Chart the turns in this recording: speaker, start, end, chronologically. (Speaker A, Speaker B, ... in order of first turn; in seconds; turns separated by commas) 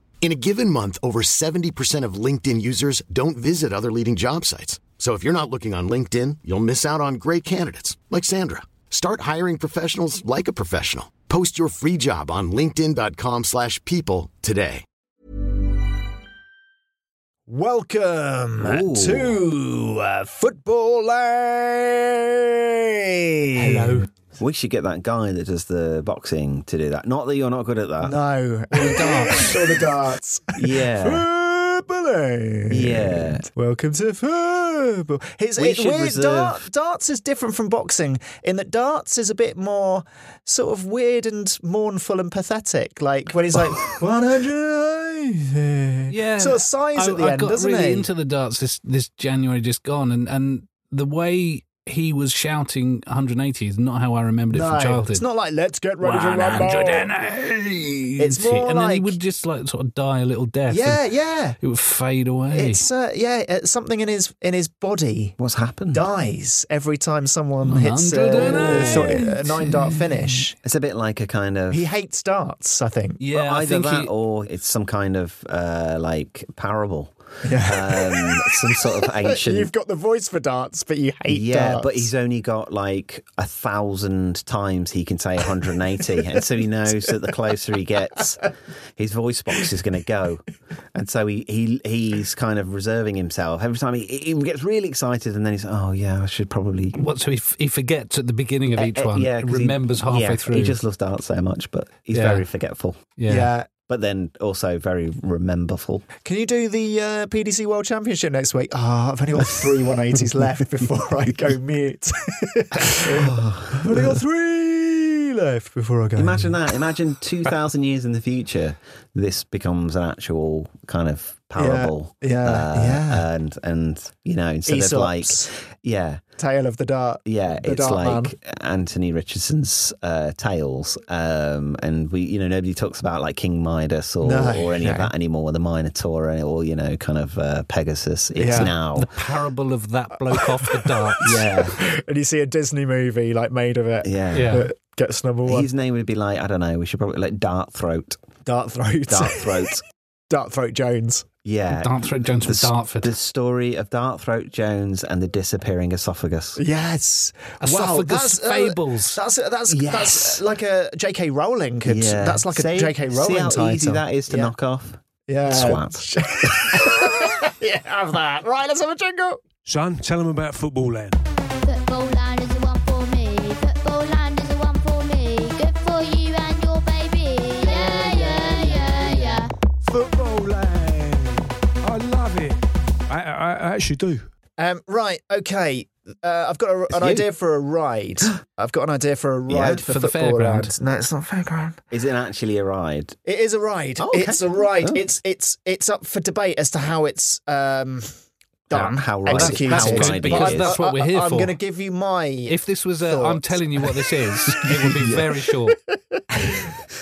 Speaker A: 0.2-14.8, Speaker B: 17.5-24.1, Speaker C: 18.6-19.4, Speaker D: 23.6-24.1, Speaker C: 24.4-28.1, Speaker B: 28.0-48.1, Speaker D: 28.7-29.8, Speaker C: 30.6-31.2, Speaker C: 32.7-33.4, Speaker C: 35.6-36.6, Speaker D: 46.1-55.2, Speaker B: 54.5-57.1, Speaker D: 56.0-61.0, Speaker B: 58.2-59.1, Speaker B: 60.7-61.6, Speaker D: 61.6-62.9, Speaker B: 62.5-65.4, Speaker C: 65.4-66.0, Speaker B: 65.9-70.5, Speaker D: 67.6-70.0, Speaker C: 68.4-69.2, Speaker C: 70.6-71.8, Speaker B: 71.7-73.2, Speaker D: 73.2-74.1, Speaker C: 73.3-79.7, Speaker B: 77.4-82.1, Speaker C: 81.3-97.0, Speaker B: 86.8-87.1, Speaker D: 97.0-100.8, Speaker C: 98.8-103.1, Speaker D: 102.1-102.5, Speaker D: 103.2-103.5, Speaker B: 103.3-103.7, Speaker C: 103.8-106.1, Speaker B: 106.2-116.5, Speaker C: 112.9-114.2, Speaker C: 116.2-126.2, Speaker B: 121.5-123.2, Speaker B: 124.7-125.5, Speaker B: 126.4-128.3, Speaker C: 127.2-139.1, Speaker B: 134.2-135.1, Speaker B: 138.3-138.7, Speaker D: 138.5-141.4, Speaker B: 140.4-145.7, Speaker C: 141.2-141.8, Speaker C: 144.0-144.6, Speaker D: 144.3-144.7, Speaker C: 145.4-148.2, Speaker B: 148.4-149.8, Speaker C: 149.1-149.8, Speaker B: 150.3-151.2, Speaker C: 151.4-156.6, Speaker D: 151.7-153.1, Speaker B: 156.6-164.5, Speaker D: 157.6-159.2, Speaker C: 159.7-160.4, Speaker C: 161.8-167.0, Speaker B: 165.3-169.4, Speaker E: 169.6-171.2, Speaker F: 171.7-179.5, Speaker B: 177.7-179.4, Speaker B: 179.9-181.1, Speaker E: 179.9-181.2, Speaker E: 181.8-182.6, Speaker E: 183.1-184.2, Speaker B: 184.6-191.8, Speaker C: 186.9-187.2, Speaker C: 189.5-189.8, Speaker D: 189.8-190.7, Speaker C: 191.9-193.2, Speaker B: 193.2-198.1, Speaker C: 194.0-195.0, Speaker B: 198.7-206.2, Speaker C: 198.7-200.7, Speaker D: 199.3-201.5, Speaker D: 202.5-205.8